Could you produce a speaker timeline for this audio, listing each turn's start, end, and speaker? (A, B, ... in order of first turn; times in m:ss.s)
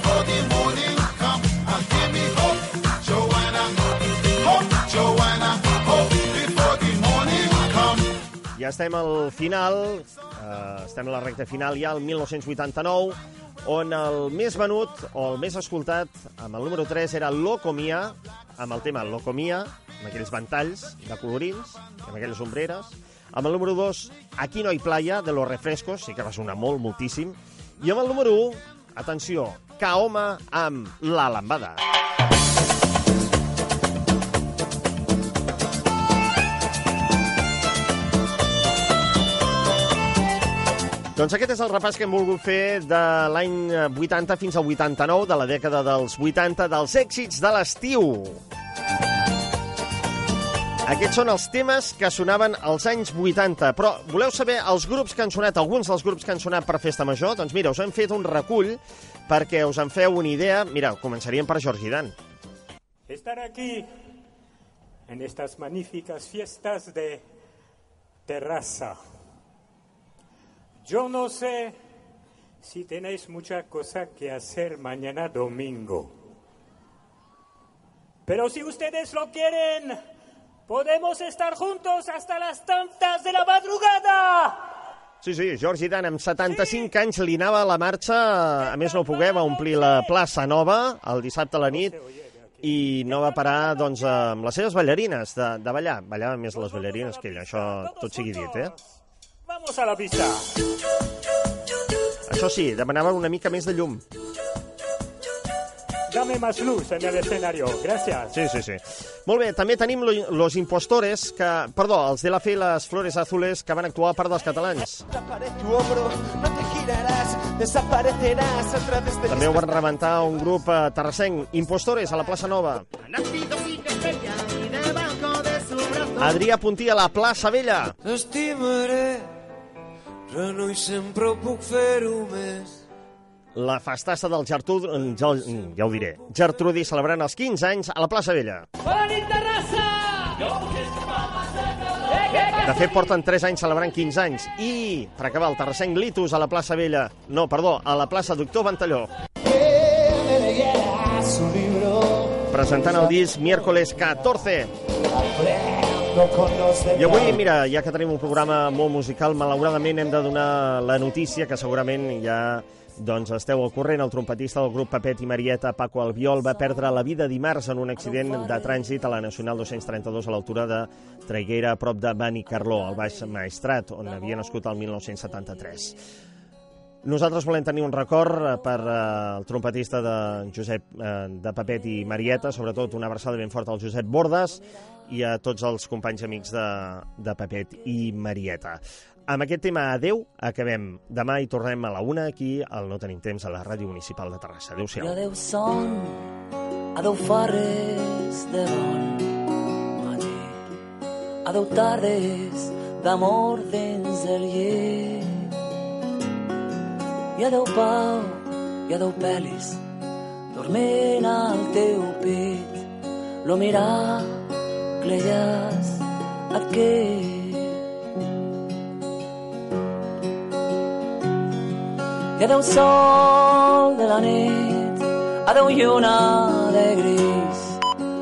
0:08.6-0:31.8 A
0:41.2-0:48.4 A
0:50.8-1:02.1 A
1:03.1-1:03.9 B
1:05.1-1:07.2 B
1:08.3-1:09.0 B
1:10.8-1:11.8 B
1:12.6-1:16.1 B
1:18.3-1:20.0 B
1:20.7-1:24.7 B
1:25.2-1:32.0 A
1:28.6-1:30.1 B
1:31.7-1:34.0 B
1:32.6-1:38.7 A
1:36.5-1:38.8 B
1:39.4-1:40.5 B
1:42.3-1:44.0 A
1:46.1-1:48.3 B
1:48.3-1:55.0 A
1:55.1-1:59.8 C
1:59.3-2:02.9 A
2:03.2-2:06.2 C
2:06.2-2:08.0 A
2:08.0-2:09.3 D
2:10.3-2:12.8 D
2:13.6-2:18.7 A
2:22.5-2:29.1 A
2:29.7-2:32.4 C
2:32.5-2:34.7 A
2:35.4-2:37.3 C
2:36.9-2:56.0 A
2:48.0-2:48.7 E
2:57.0-3:15.2 A
3:15.0-3:16.3 E
3:16.9-3:19.4 E
3:19.9-3:20.8 E
3:21.4-3:25.5 E
3:27.4-3:29.8 E
3:30.5-3:32.9 E
3:33.4-3:34.5 E
3:35.0-3:37.8 E
3:42.4-3:47.8 E